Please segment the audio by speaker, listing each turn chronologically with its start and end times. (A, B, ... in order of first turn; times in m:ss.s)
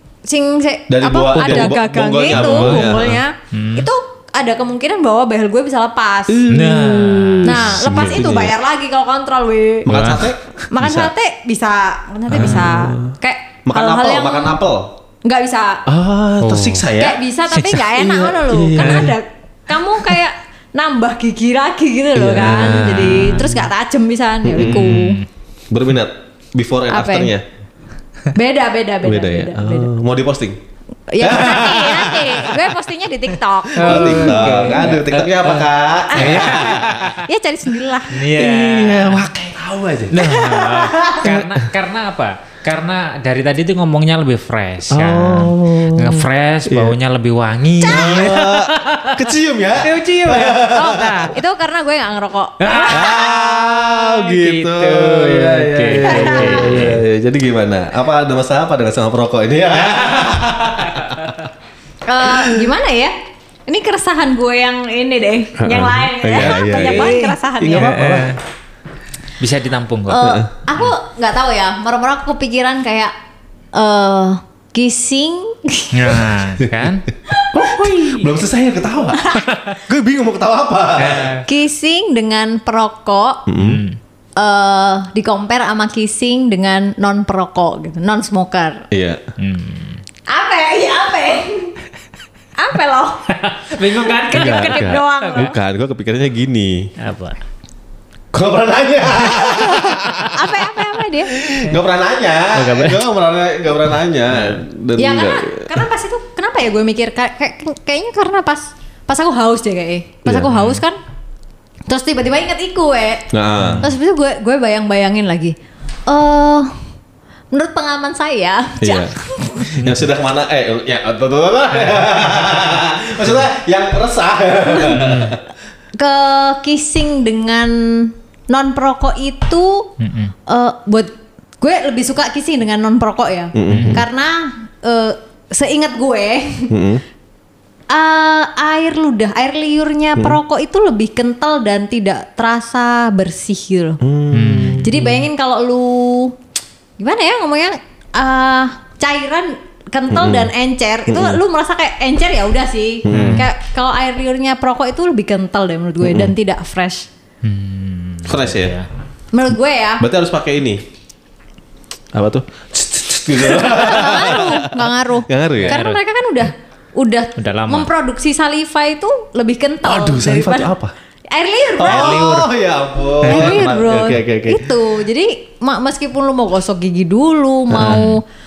0:00.2-0:06.4 A
0:00.9-0:03.2 B
0:02.3-0:02.8 C
0:03.5-0:03.9 C
0:06.3-0:08.5 B
0:06.5-0:08.0 C
0:07.4-0:10.0 A
0:09.8-0:11.1 B
0:09.9-0:10.3 C
0:10.7-0:14.6 A
0:12.3-0:15.0 B
0:12.3-0:12.6 C
0:15.2-0:15.8 A
0:15.9-0:19.2 B
0:16.4-0:16.8 C
0:17.0-0:25.2 A
0:18.8-0:19.1 C
0:22.1-0:23.4 B
0:22.7-0:23.6 C
0:24.4-0:25.1 B
0:24.6-0:25.2 C
0:25.7-0:27.4 B
0:26.9-0:27.3 A
0:28.3-0:29.9 A
0:29.0-0:30.6 B
0:31.1-0:34.5 A
0:31.2-0:32.7 B
0:33.7-0:37.2 C
0:33.8-0:37.2 B
0:36.1-0:36.7 A
0:37.2-0:38.2 A
0:38.1-0:39.3 C
0:38.2-0:41.7 B
0:40.1-0:49.2 C
0:40.5-0:41.2 A
0:44.9-0:47.0 B
0:47.8-0:48.4 A
0:47.8-0:51.3 B
0:49.8-0:51.1 C
0:50.7-0:53.2 A
0:52.6-0:57.0 C
0:52.9-1:01.4 B
0:56.0-0:56.7 A
1:02.0-1:03.1 A
1:02.2-1:02.6 B
1:03.7-1:08.0 A
1:05.6-1:08.3 B
1:06.4-1:08.4 C
1:09.4-1:10.9 C
1:10.1-1:13.1 A
1:10.2-1:10.5 B
1:13.7-1:16.2 A
1:15.9-1:18.3 C
1:16.6-1:17.0 B
1:17.5-1:21.3 B
1:19.1-1:19.5 A
1:21.0-1:21.4 C
1:21.4-1:23.4 A
1:23.5-1:23.8 B
1:23.5-1:24.0 C
1:24.4-1:28.8 A
1:28.9-1:29.2 B
1:29.4-1:30.0 C
1:30.3-1:31.7 A
1:32.6-1:33.3 A
1:33.4-1:35.5 C
1:34.0-1:35.5 A
1:34.3-1:36.9 B
1:37.0-1:37.4 C
1:38.3-1:40.6 B
1:39.4-1:41.3 A
1:41.3-1:45.8 B
1:42.5-1:43.0 C
1:45.0-1:51.0 A
1:50.2-1:50.6 B
1:50.5-1:50.8 C
1:51.9-1:53.3 A
1:53.3-1:53.9 B
1:53.6-1:53.8 C
1:53.8-1:55.6 A
1:56.1-1:56.8 A
1:57.5-1:59.8 A
1:58.8-2:05.4 B
2:04.8-2:05.4 C
2:06.0-2:09.9 A
2:10.0-2:10.3 C
2:10.5-2:16.8 A
2:13.5-2:14.0 B
2:13.6-2:14.0 C
2:16.7-2:17.0 B
2:17.9-2:24.0 A
2:24.0-2:25.1 B
2:24.3-2:24.9 C
2:24.8-2:26.4 A
2:27.0-2:37.1 A
2:30.1-2:30.5 B
2:31.1-2:31.4 B
2:33.0-2:33.4 B
2:33.1-2:33.5 C
2:36.0-2:36.3 B
2:37.4-2:38.9 C
2:38.3-2:38.8 B
2:39.3-2:40.1 A
2:40.0-2:40.8 B
2:42.1-2:45.8 B
2:43.5-2:50.7 A
2:45.6-2:46.0 C
2:47.4-2:47.9 C
2:49.8-2:50.9 B
2:51.3-2:52.5 A
2:51.8-2:54.7 B
2:51.8-2:52.5 C
2:53.2-2:58.2 A
2:53.2-2:53.6 C
2:57.7-2:58.1 B
2:57.8-2:58.2 C